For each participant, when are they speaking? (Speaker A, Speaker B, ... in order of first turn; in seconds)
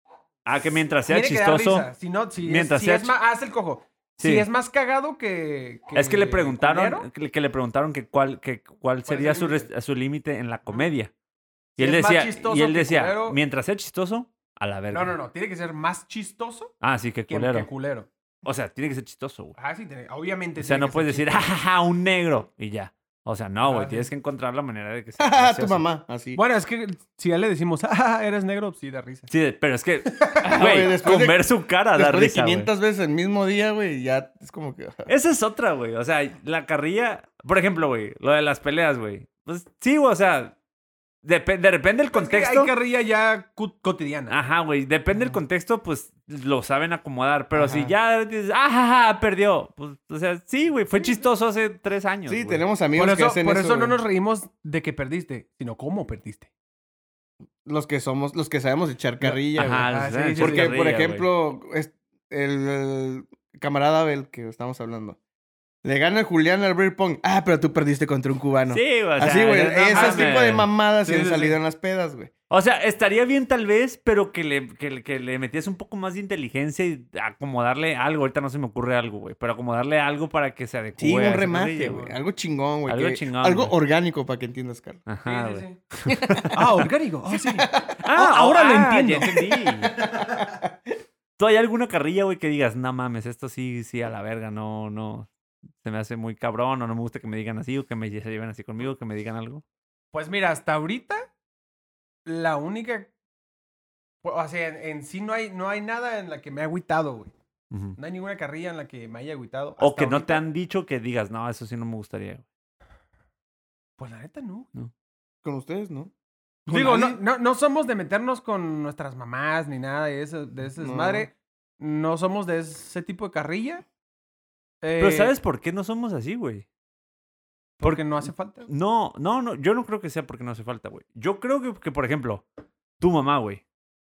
Speaker A: 0.4-1.9, 2.4-3.1, 4.2-4.5, 5.9-11.1, 11.8-15.1, 16.8-17.7, 18.4-19.6, 20.6-25.8, 29.3-32.7, 35.1-40.5, 41.2-42.7, 44.3-52.6, 59.5-61.2, 68.7-70.7, 72.5-82.1, 82.9-83.7, 85.1-86.8, 88.0-89.9, 91.4-95.3, 95.8-99.6, 107.7-108.0, 109.8-112.4, 125.0-126.6, 127.8-132.4, 133.0-133.6
Speaker B: 1.0-7.1, 9.1-9.7, 11.8-13.4, 14.9-16.7, 17.3-18.1, 19.6-21.4, 23.6-24.1, 26.3-29.3, 30.1-30.4, 42.1-44.4, 50.9-51.2, 52.9-56.5, 59.2-60.7, 69.9-70.3, 71.0-71.6, 85.2-85.8, 86.5-90.4, 100.1-101.3, 102.2-103.1, 104.2-107.3, 108.0-110.4, 114.0-114.7, 116.7-123.8, 124.8-125.3, 127.8-128.7
Speaker C: 25.2-26.4, 30.4-35.1, 47.5-47.9, 52.2-54.0, 57.6-65.2, 65.8-72.3, 81.0-85.0, 86.1-86.5, 87.3-87.9, 90.2-90.7, 115.4-116.1, 116.7-117.2, 120.8-121.3